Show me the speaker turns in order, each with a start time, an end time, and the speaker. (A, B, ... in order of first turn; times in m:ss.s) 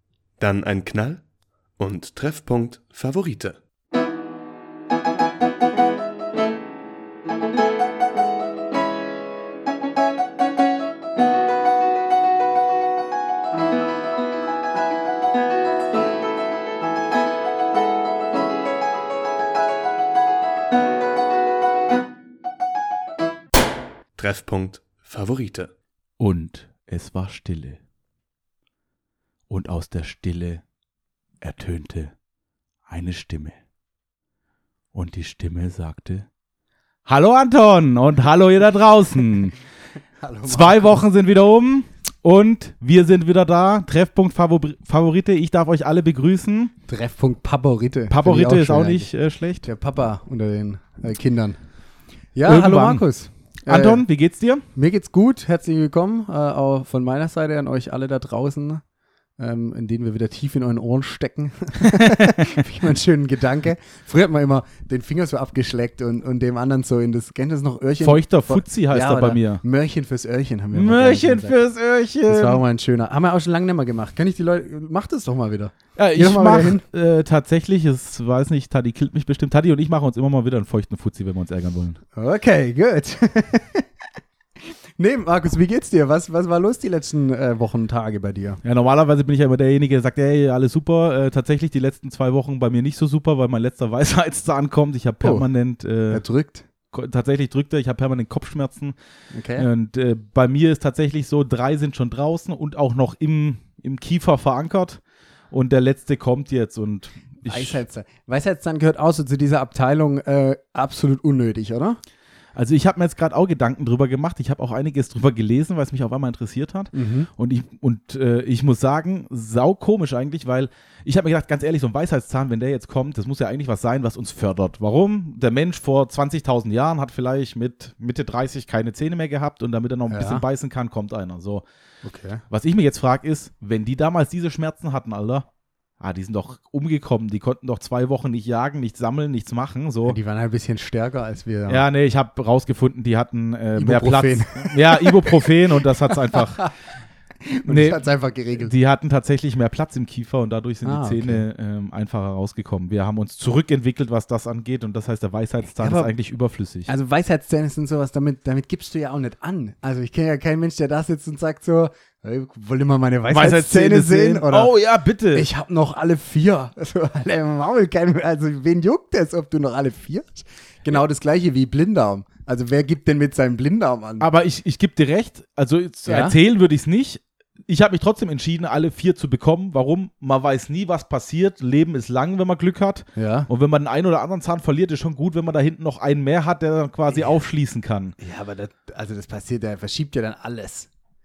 0:00.4-0:01.2 A
0:01.8-0:03.6 A
0:24.2-0:25.7 A
0:26.2-0:27.8 B
0:29.5-0:30.6 B
0:31.4-0:32.1 B
0:32.9-0:33.6 B
0:34.9-0:36.3 B
0:37.0-0:39.5 B
0:40.2-0:41.0 C
0:40.4-0:46.7 B
0:46.9-0:49.1 C
0:48.1-0:49.7 B
0:49.6-0:51.6 C
0:52.3-0:54.0 C
0:52.4-0:53.0 B
0:53.7-0:54.6 B
0:54.7-0:58.8 C
0:59.4-1:11.6 C
1:01.8-1:02.5 B
1:08.0-1:09.6 B
1:10.7-1:12.6 B
1:12.3-1:16.8 C
1:16.0-1:22.0 B
1:22.1-1:23.8 C
1:25.0-1:28.6 C
1:28.6-1:36.2 B
1:36.1-1:36.7 C
1:36.9-1:38.9 B
1:39.3-1:39.6 C
1:39.6-1:47.8 B
1:47.4-1:52.0 C
1:52.5-2:11.6 B
1:56.9-1:57.3 C
2:10.1-2:10.4 C
2:12.0-2:12.4 C
2:12.5-2:15.4 B
2:16.0-2:20.2 B
2:20.0-2:21.8 C
2:21.7-2:26.7 B
2:23.8-2:26.7 C
2:27.4-2:28.7 C
2:27.6-2:28.0 B
2:28.6-2:36.9 B
2:30.8-2:31.4 C
2:35.8-2:36.1 C
2:36.8-2:44.7 C
2:43.3-2:45.5 B
2:45.3-2:54.3 C
2:54.2-3:08.1 B
2:56.0-2:56.4 C
3:03.2-3:03.5 C
3:08.2-3:10.9 C